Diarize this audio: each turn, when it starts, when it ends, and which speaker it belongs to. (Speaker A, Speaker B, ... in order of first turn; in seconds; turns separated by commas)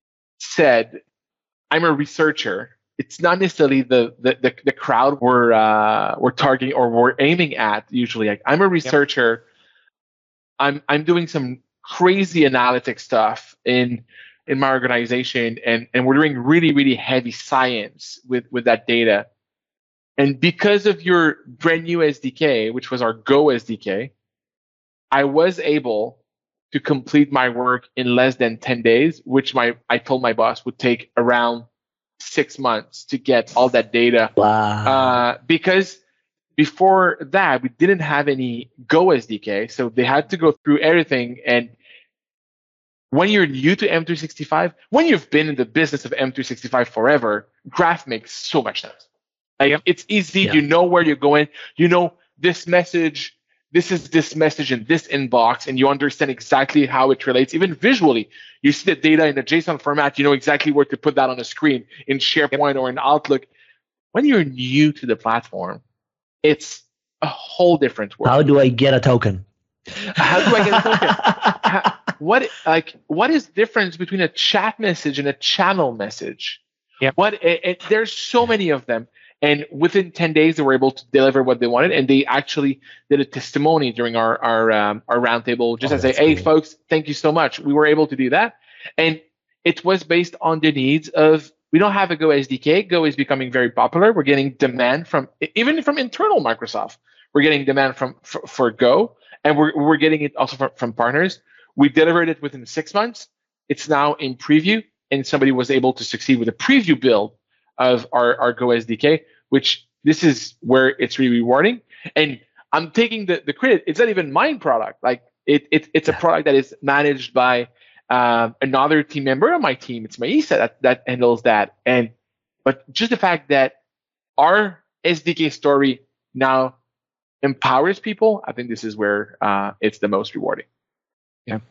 Speaker A: 0.4-1.0, Speaker A: 1.7-9.4, Speaker A: 10.6-19.3, Speaker A: 20.2-24.1, Speaker A: 25.1-26.2, Speaker A: 26.7-31.7, Speaker A: 32.2-34.3, Speaker B: 34.4-35.2, Speaker A: 34.9-36.0, Speaker A: 36.6-41.7, Speaker A: 43.1-49.0, Speaker A: 49.6-63.5, Speaker A: 64.1-65.8, Speaker A: 66.4-68.4, Speaker B: 68.2-69.5, Speaker B: 70.1-71.7, Speaker A: 70.2-76.6, Speaker A: 77.2-122.1, Speaker B: 85.8-86.5, Speaker A: 122.7-123.8, Speaker A: 124.4-126.8, Speaker A: 127.4-130.7